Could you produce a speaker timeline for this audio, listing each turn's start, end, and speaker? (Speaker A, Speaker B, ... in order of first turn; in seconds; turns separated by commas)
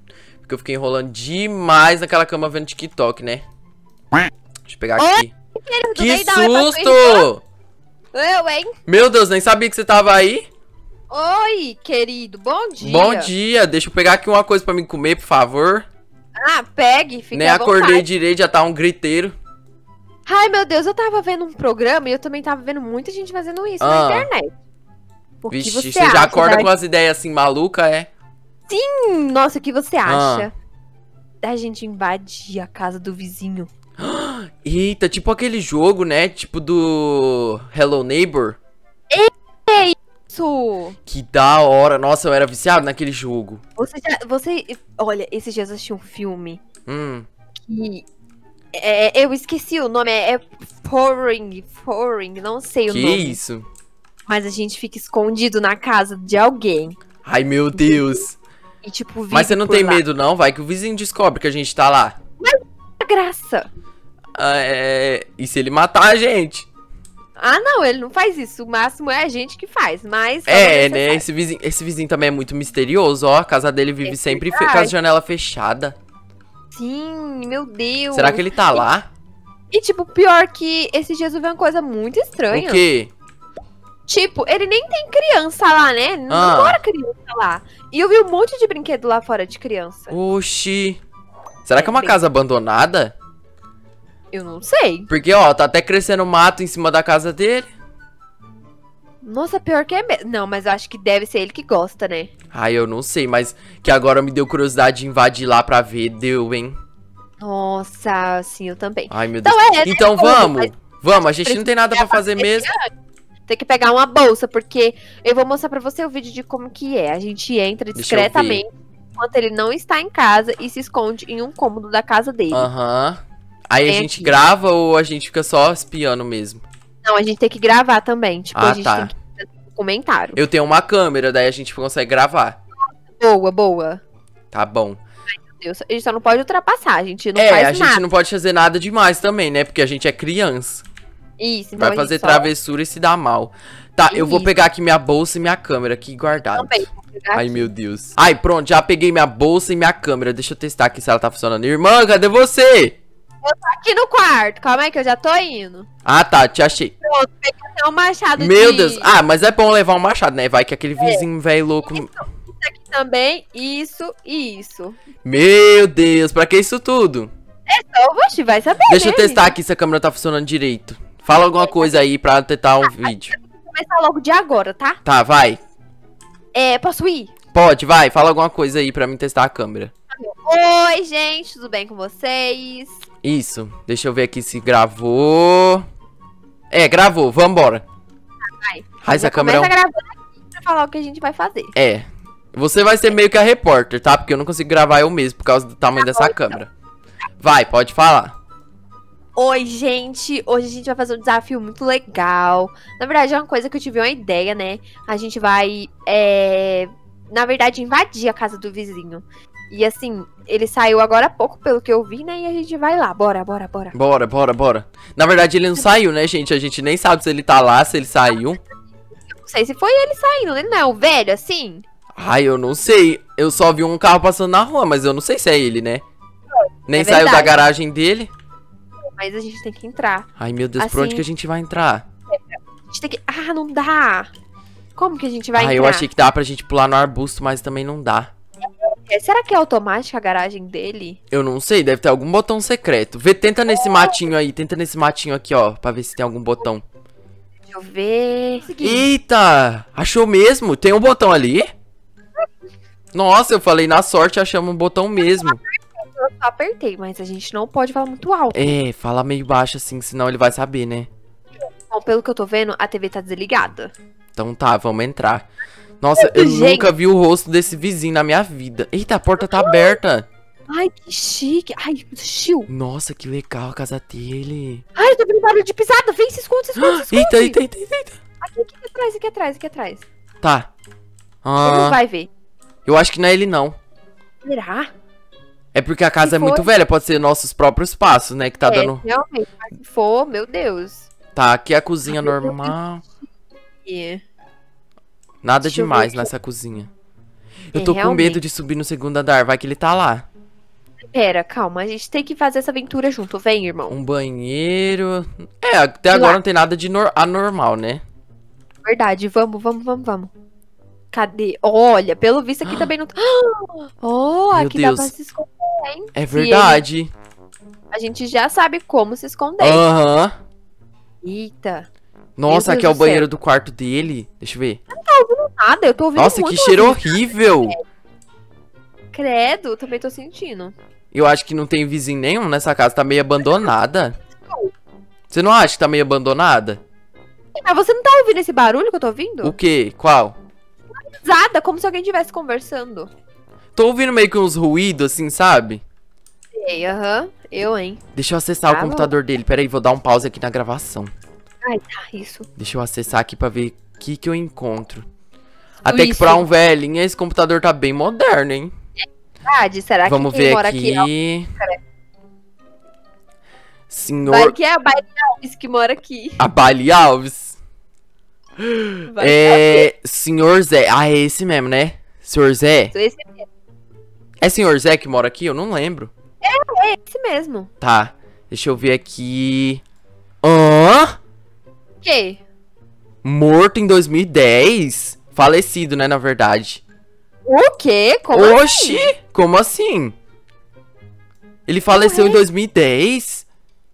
Speaker A: 0.4-3.4, Speaker A: 4.7-5.3, Speaker B: 5.0-7.3, Speaker A: 5.9-7.4, Speaker B: 8.1-8.7, Speaker A: 8.9-10.5, Speaker B: 11.1-13.3, Speaker A: 12.8-15.8, Speaker B: 16.4-18.0, Speaker A: 17.3-19.4, Speaker B: 20.2-24.5, Speaker A: 23.8-24.3, Speaker B: 25.4-26.7, Speaker A: 25.5-28.1, Speaker B: 28.7-30.5, Speaker A: 30.1-30.5, Speaker B: 31.4-33.7, Speaker A: 34.0-38.6, Speaker B: 39.1-41.0, Speaker A: 41.0-43.6, Speaker B: 43.8-46.6, Speaker A: 46.9-47.3, Speaker B: 47.6-48.0, Speaker B: 48.7-53.4, Speaker A: 52.9-53.6, Speaker B: 54.3-57.0, Speaker A: 57.2-58.4, Speaker B: 57.8-58.2, Speaker B: 58.8-60.0, Speaker A: 59.3-62.2, Speaker B: 62.4-63.7, Speaker A: 64.3-66.7, Speaker B: 67.4-71.2, Speaker A: 70.5-76.0, Speaker B: 74.0-74.9, Speaker B: 76.7-78.8, Speaker A: 78.1-79.1, Speaker B: 79.7-82.8, Speaker A: 82.5-83.1, Speaker B: 84.1-90.1, Speaker A: 86.3-86.8, Speaker A: 90.1-91.0, Speaker A: 91.6-93.1, Speaker B: 91.8-92.2, Speaker B: 94.3-95.1, Speaker A: 95.1-97.7, Speaker B: 99.2-102.3, Speaker A: 102.5-106.8, Speaker B: 107.4-112.8, Speaker A: 109.1-112.7, Speaker B: 113.5-122.7, Speaker A: 117.9-118.6, Speaker A: 122.5-126.6, Speaker B: 123.8-124.3, Speaker B: 127.0-130.4, Speaker A: 128.5-129.1, Speaker A: 130.3-132.6, Speaker B: 133.2-134.0, Speaker A: 134.5-135.0, Speaker B: 135.4-138.0, Speaker A: 137.3-140.8, Speaker B: 141.4-142.5, Speaker A: 141.8-153.0, Speaker B: 144.1-144.5, Speaker B: 146.6-147.7, Speaker B: 153.4-155.9, Speaker A: 156.0-156.9, Speaker B: 157.0-159.1, Speaker A: 158.4-162.3, Speaker B: 161.0-161.2, Speaker B: 161.8-165.0, Speaker A: 165.2-167.3, Speaker B: 167.7-169.5, Speaker A: 168.9-173.3, Speaker B: 171.3-172.0, Speaker B: 172.8-175.0, Speaker A: 175.0-175.6, Speaker B: 176.5-177.3, Speaker A: 177.5-179.9, Speaker B: 180.1-182.9, Speaker A: 183.2-185.8, Speaker A: 186.7-187.8, Speaker B: 188.6-191.7, Speaker A: 189.0-189.7, Speaker A: 191.7-196.7, Speaker B: 196.0-196.6, Speaker A: 197.4-198.4, Speaker B: 199.3-213.9, Speaker A: 213.9-218.6, Speaker B: 219.3-221.8, Speaker A: 222.2-226.0, Speaker A: 226.9-228.3, Speaker B: 226.9-227.6, Speaker B: 229.1-231.2, Speaker A: 230.4-232.0, Speaker B: 232.3-234.3, Speaker B: 234.9-236.1, Speaker A: 235.5-238.3, Speaker B: 238.7-241.2, Speaker A: 241.3-246.8, Speaker B: 243.7-244.1, Speaker B: 247.7-249.1, Speaker A: 248.8-251.7, Speaker A: 253.1-255.6, Speaker B: 255.2-258.8, Speaker A: 258.5-261.1, Speaker B: 261.9-263.9, Speaker A: 264.4-265.5, Speaker A: 266.0-270.3, Speaker B: 266.1-266.9, Speaker B: 269.4-270.0, Speaker B: 270.7-272.7, Speaker A: 272.7-274.8, Speaker B: 274.9-277.6, Speaker A: 276.8-278.2, Speaker B: 278.4-280.0, Speaker A: 280.4-280.7, Speaker A: 281.4-282.0, Speaker B: 281.6-282.3, Speaker A: 282.9-283.8, Speaker B: 284.4-284.9, Speaker A: 285.7-289.0, Speaker B: 286.2-286.7, Speaker B: 288.6-291.1, Speaker A: 291.3-293.0, Speaker B: 292.1-292.7, Speaker B: 293.9-294.2, Speaker A: 295.4-296.9, Speaker B: 295.6-296.3, Speaker A: 297.7-300.2, Speaker B: 297.7-298.4, Speaker B: 301.1-303.9, Speaker A: 303.9-308.0, Speaker B: 306.1-306.4, Speaker B: 308.8-310.3, Speaker B: 311.1-316.8, Speaker A: 314.5-315.1, Speaker A: 316.1-317.1, Speaker B: 317.9-319.8, Speaker A: 319.6-320.3, Speaker B: 321.2-321.9, Speaker A: 322.4-324.8, Speaker B: 322.5-323.3, Speaker B: 324.9-327.8, Speaker A: 326.1-327.8, Speaker B: 329.1-330.7, Speaker A: 331.1-334.2, Speaker A: 335.3-336.8, Speaker B: 337.5-339.6, Speaker A: 339.4-340.4, Speaker B: 341.0-343.1, Speaker A: 343.7-345.8, Speaker B: 346.5-348.0, Speaker A: 348.1-351.1, Speaker B: 348.7-349.1, Speaker B: 351.6-352.5, Speaker A: 352.6-355.1, Speaker A: 355.8-358.7, Speaker B: 355.9-356.5, Speaker B: 359.4-361.8, Speaker A: 360.0-361.5, Speaker A: 363.9-364.5, Speaker B: 364.2-366.4, Speaker A: 366.4-367.6, Speaker A: 368.6-372.9, Speaker B: 369.1-369.9, Speaker B: 372.9-373.4, Speaker A: 374.4-376.1, Speaker B: 376.4-377.7, Speaker A: 377.8-379.8, Speaker A: 380.4-381.2, Speaker B: 382.0-382.4, Speaker A: 383.2-386.8, Speaker B: 387.4-389.1, Speaker A: 388.3-390.1, Speaker A: 391.7-393.4, Speaker B: 391.9-392.4